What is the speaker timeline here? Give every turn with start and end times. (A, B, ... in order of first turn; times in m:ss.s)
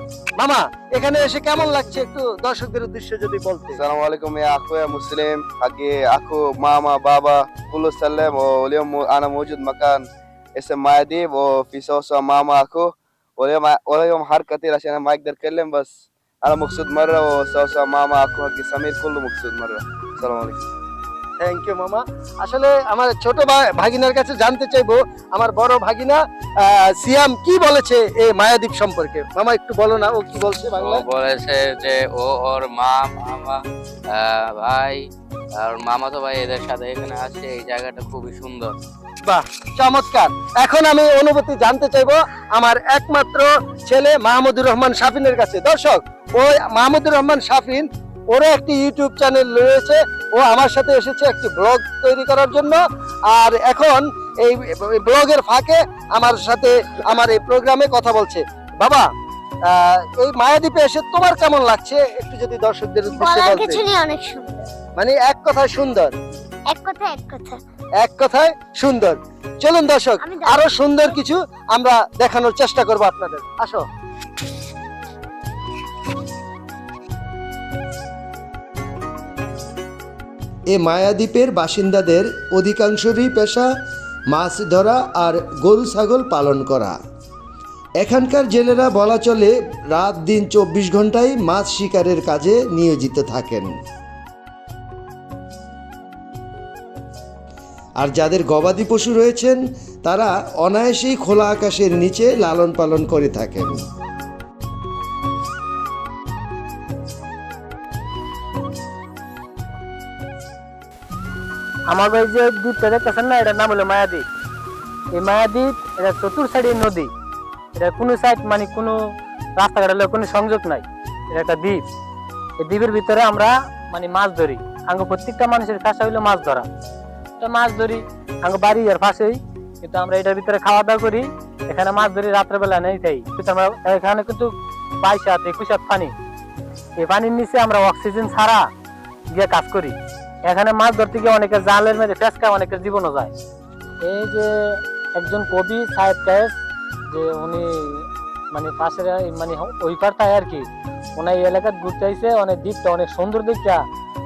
0:00.4-0:03.8 A
0:03.8-0:10.0 B
0:10.6-0:15.9 B
0:16.4-0:20.6 B
0:21.4-0:31.1 A
0:30.8-0:33.6 C
0:34.2-0:35.0 C
0:35.6-0:38.7 C
0:39.2-0:52.8 A
0:53.3-0:59.1 A
0:59.7-1:03.9 A
1:03.1-1:04.7 D
1:05.0-1:06.1 A
1:06.7-1:07.6 D
1:08.0-1:13.8 A
1:10.2-1:11.1 D
1:20.7-1:23.7 E
1:24.3-1:27.0 E
1:28.0-1:33.8 E
1:38.0-1:43.8 E
1:51.9-1:54.3 F
1:55.1-1:57.1 F
1:57.8-2:01.9 F
2:02.6-2:06.7 F
2:07.4-2:16.1 F
2:17.0-2:18.7 F
2:19.3-2:23.3 F
2:24.0-2:33.8 F